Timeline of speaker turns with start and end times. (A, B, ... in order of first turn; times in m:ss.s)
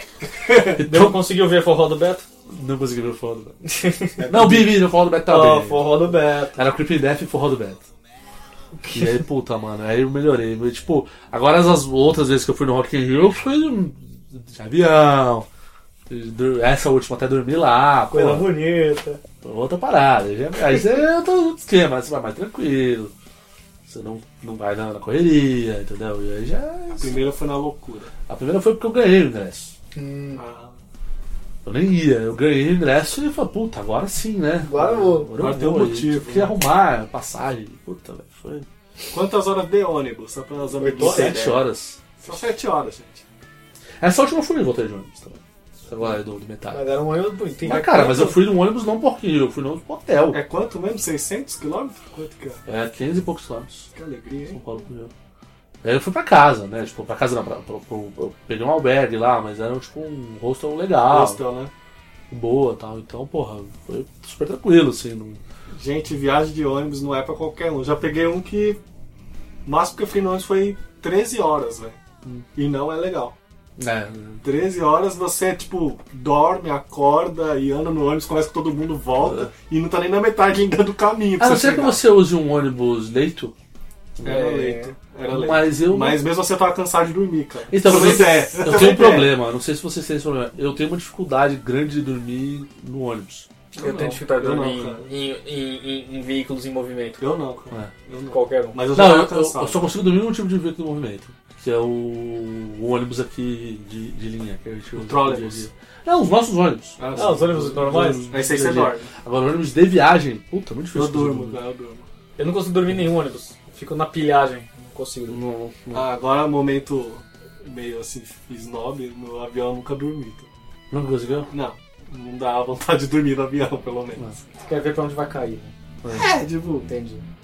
0:00.7-0:01.2 A
0:00.8-0:02.2 B
0:02.5-0:03.6 A
0:03.7-0:04.2 B
0:04.2-0:04.7 C
0:04.3-0:07.8 A
0:05.3-0:06.6 B
0:08.9-0:15.5 A
0:16.1-0:18.5 A
0:18.1-0:19.2 B
0:19.4-0:23.1 A
0:23.9-0:27.2 A
0:27.0-0:28.1 C
0:28.3-0:29.8 A
0:30.0-0:30.4 B
0:30.4-0:30.8 C
0:31.6-0:38.7 A
0:34.6-0:35.3 B
0:35.4-0:36.5 C
0:39.1-0:41.6 C
0:40.8-0:41.4 B
0:41.0-0:42.0 A
0:42.2-0:43.2 C
0:44.0-0:46.9 A
0:46.7-0:48.4 B
0:47.6-0:50.4 A
0:47.7-0:48.3 C
0:50.3-0:52.6 C
0:52.7-0:53.9 A
0:53.9-0:54.6 C
0:54.5-0:55.1 A
0:55.8-1:01.4 A
1:01.1-1:01.7 C
1:02.3-1:05.4 A
1:05.7-1:08.8 C
1:09.6-1:12.0 C
1:12.6-1:13.4 C
1:13.8-1:14.4 A
1:14.4-1:22.0 C
1:19.2-1:19.5 A
1:21.4-1:23.6 A
1:24.2-1:29.3 C
1:24.2-1:24.9 B
1:25.3-1:26.2 A
1:27.7-1:33.5 A
1:33.7-1:35.1 C
1:33.8-1:37.2 B
1:37.2-1:39.9 C
1:38.3-1:38.8 B
1:38.9-1:51.6 A
1:45.0-1:45.7 C
1:47.0-1:49.1 C
1:47.1-1:48.4 B
1:51.0-1:52.1 C
1:52.4-1:55.4 B
1:55.3-1:56.1 A
1:55.9-2:00.5 C
2:00.9-2:01.5 A
2:01.5-2:04.3 C
2:04.6-2:05.7 B
2:06.0-2:06.3 A
2:06.1-2:06.9 C
2:06.9-2:07.2 B